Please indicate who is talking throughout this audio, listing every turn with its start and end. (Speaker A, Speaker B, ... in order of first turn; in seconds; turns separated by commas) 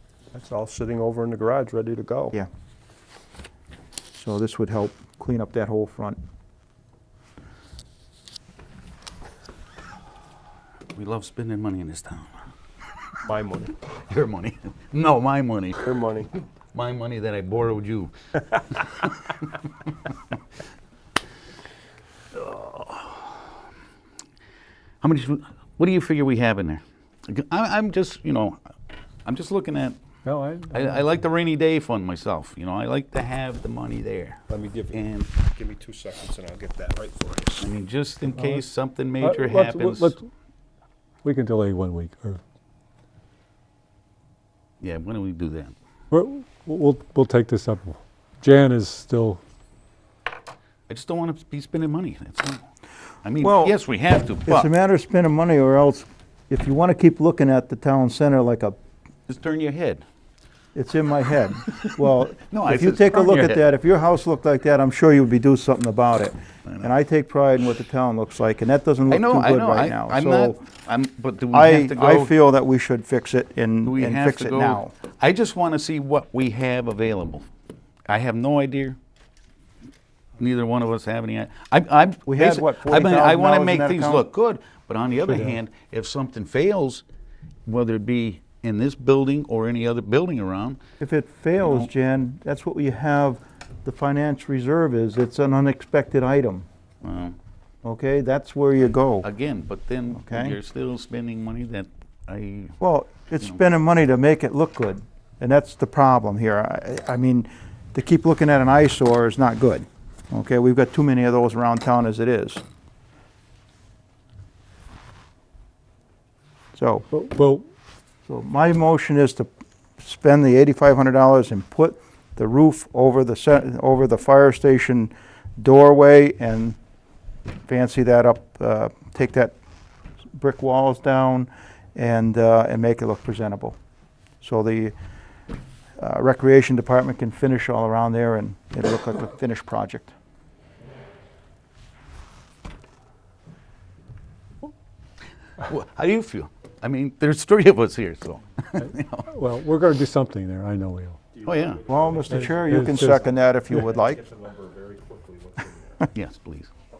Speaker A: 0.3-2.3, Speaker B: 4.1-6.2, Speaker C: 10.9-12.3, Speaker A: 13.3-13.7, Speaker C: 13.8-15.9, Speaker A: 15.8-16.3, Speaker C: 16.7-20.1, Speaker C: 22.3-23.5, Speaker C: 25.0-28.6, Speaker C: 29.2-30.0, Speaker D: 30.2-31.0, Speaker C: 30.7-35.3, Speaker A: 34.5-37.6, Speaker C: 37.6-40.1, Speaker D: 39.2-40.2, Speaker D: 41.2-42.4, Speaker C: 44.8-45.7, Speaker D: 46.1-49.4, Speaker C: 50.9-52.6, Speaker C: 53.2-54.7, Speaker B: 53.4-53.8, Speaker B: 54.5-58.8, Speaker C: 59.3-60.0, Speaker B: 60.7-70.6, Speaker C: 61.7-63.7, Speaker C: 69.1-72.3, Speaker B: 71.5-74.9, Speaker C: 73.8-77.5, Speaker C: 78.1-79.0, Speaker C: 80.4-87.0, Speaker B: 82.2-84.2, Speaker D: 85.3-85.5, Speaker C: 87.7-90.8, Speaker B: 91.0-96.7, Speaker C: 97.0-97.4, Speaker B: 97.8-99.3, Speaker C: 99.2-102.8, Speaker B: 100.1-100.6, Speaker B: 102.8-112.6, Speaker B: 116.7-117.1, Speaker D: 117.1-117.7, Speaker B: 118.3-126.8, Speaker B: 127.7-129.6, Speaker B: 130.3-133.8, Speaker B: 134.4-134.9, Speaker B: 136.0-140.1, Speaker C: 145.6-149.3, Speaker D: 148.8-151.2, Speaker C: 151.4-151.9, Speaker B: 151.8-154.3, Speaker D: 152.3-153.9, Speaker C: 156.1-156.7